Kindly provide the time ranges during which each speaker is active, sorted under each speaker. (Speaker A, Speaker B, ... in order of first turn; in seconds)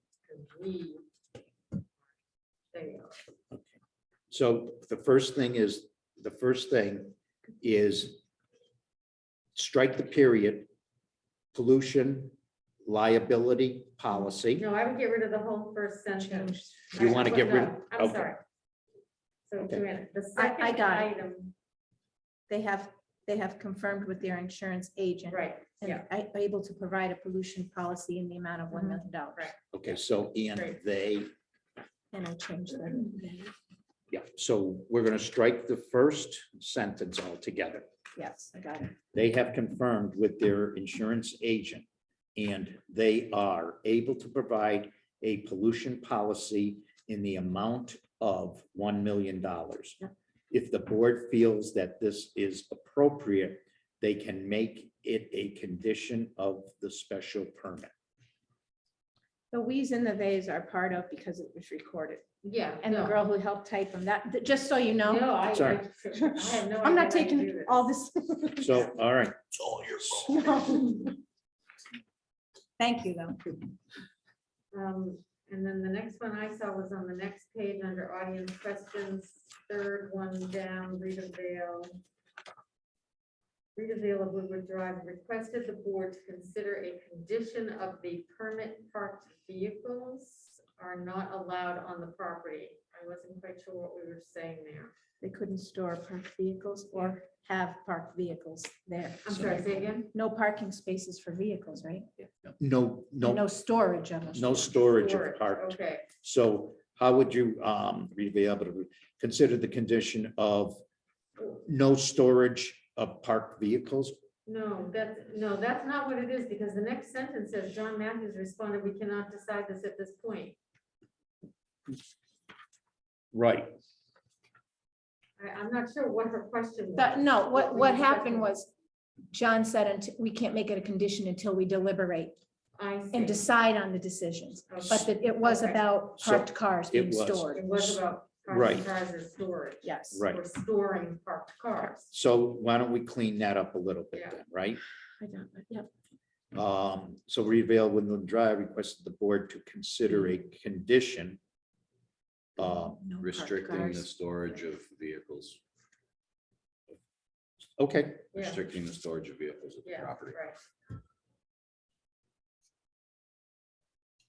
Speaker A: 0.3-1.0, 2.7-3.2, 14.6-18.4, 19.5-21.5, 25.3-26.1, 28.7-29.6, 62.4-63.2, 65.0-67.9, 74.7-82.0, 83.8-94.9, 99.2-100.1, 104.8-106.1, 114.5-120.6, 125.4-128.5, 132.8-133.5, 134.7-135.8, 137.5-142.1, 144.1-144.4, 158.3-158.6, 159.8-160.6
Speaker B: 4.3-8.2, 9.5-10.7, 11.5-14.7, 16.9-18.3, 29.7-31.3, 34.1-37.9, 39.1-57.9, 65.5-65.8, 68.6-70.1, 99.5-99.8, 102.6-103.5, 104.3-110.8, 111.4-114.2, 123.3-123.7, 136.2-138.9, 140.1-140.4, 142.1-144.8, 146.5-151.4, 152.6-153.0, 157.8-158.3
Speaker C: 16.2-17.0, 20.4-21.1, 22.5-29.5, 32.1-33.5, 38.1-39.0, 59.5-62.3, 62.8-65.4, 66.1-68.9, 70.0-71.2, 72.8-73.6, 95.2-102.1, 103.2-104.7, 127.0-128.7, 129.3-132.3, 133.1-137.6, 139.8-140.2, 145.2-145.9, 152.6-154.1
Speaker D: 153.2-155.6, 158.3-160.4